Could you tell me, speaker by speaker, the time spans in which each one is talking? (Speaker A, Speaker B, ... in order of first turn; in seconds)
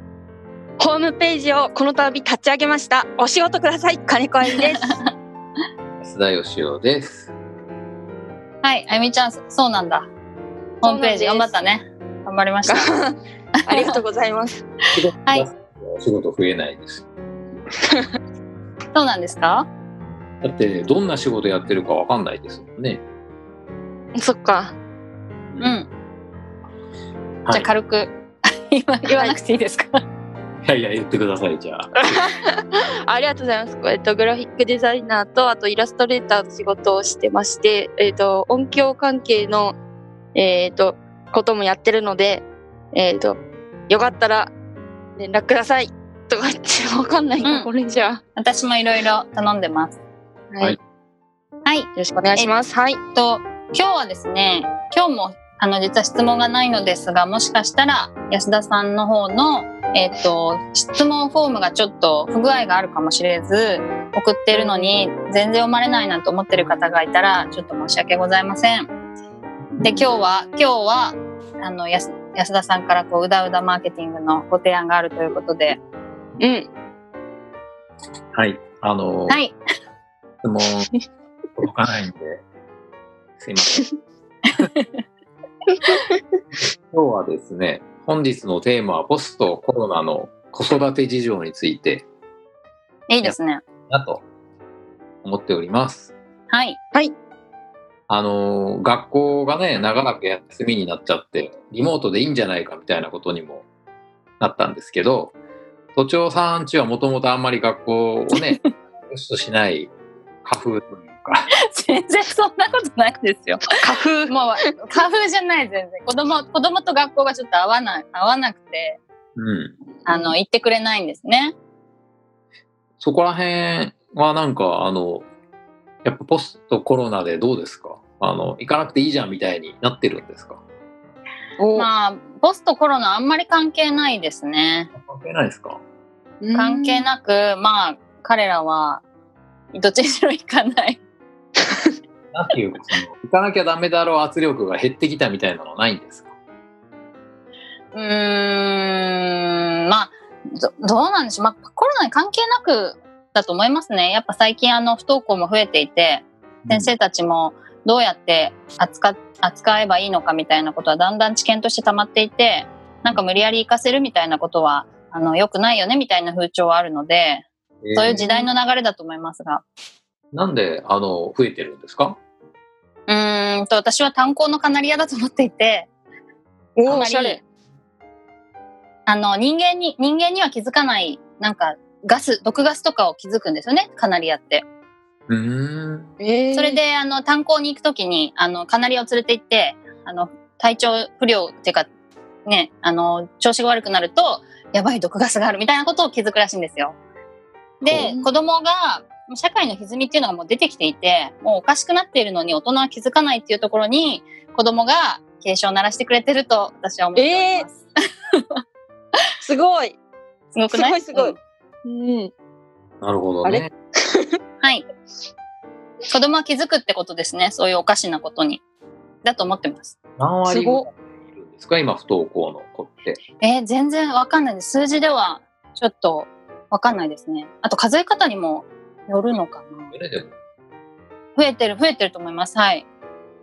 Speaker A: 0.8-5.0, 10.8-11.5, 12.7-13.1, 13.7-14.6, 24.1-24.7, 29.1-29.4, 33.0-39.8, 40.3-44.5, 45.2-48.2, 50.5-50.8, 52.0-53.0, 64.5-64.9, 76.4-76.7, 113.7-114.3, 131.6-131.9, 136.4-137.0, 168.1-168.5, 176.8-177.4, 186.2-186.8, 198.0-198.3, 207.1-207.7, 209.4-210.0, 210.7-212.3, 213.4-214.3, 220.4-220.8
Speaker B: 6.0-7.3, 14.9-17.1, 20.4-23.0, 25.5-25.7, 30.6-32.1, 78.3-79.4, 80.4-80.9, 81.6-82.4, 83.4-84.0, 86.9-92.0, 93.9-94.2, 95.2-96.1, 98.1-103.6, 104.4-105.3, 106.0-109.9, 110.4-111.5, 119.4-119.8, 123.0-125.3, 126.0-130.6, 134.9-135.8, 142.3-146.3, 156.6-156.9, 167.8-168.2, 170.3-172.2, 185.3-186.1, 197.8-198.1, 213.0-213.7, 220.2-223.2, 229.9-230.3
Speaker C: 8.6-10.1, 10.8-12.9, 13.7-13.9, 18.9-19.7, 25.6-25.9, 27.4-28.1, 28.7-30.0, 47.4-47.7, 48.4-50.0, 51.6-52.5, 53.1-68.9, 69.8-75.8, 79.3-79.5, 93.1-93.6, 96.5-96.8, 108.3-108.6, 111.7-113.6, 114.3-119.0, 120.0-121.5, 131.7-134.9, 136.5-139.0, 139.7-141.0, 147.9-169.6, 173.1-175.9, 176.9-177.4, 179.1-184.6, 186.5-191.9, 192.4-197.0, 197.8-208.4, 210.5-211.3, 216.1-218.6, 219.2-219.9, 223.4-229.9, 231.3-232.8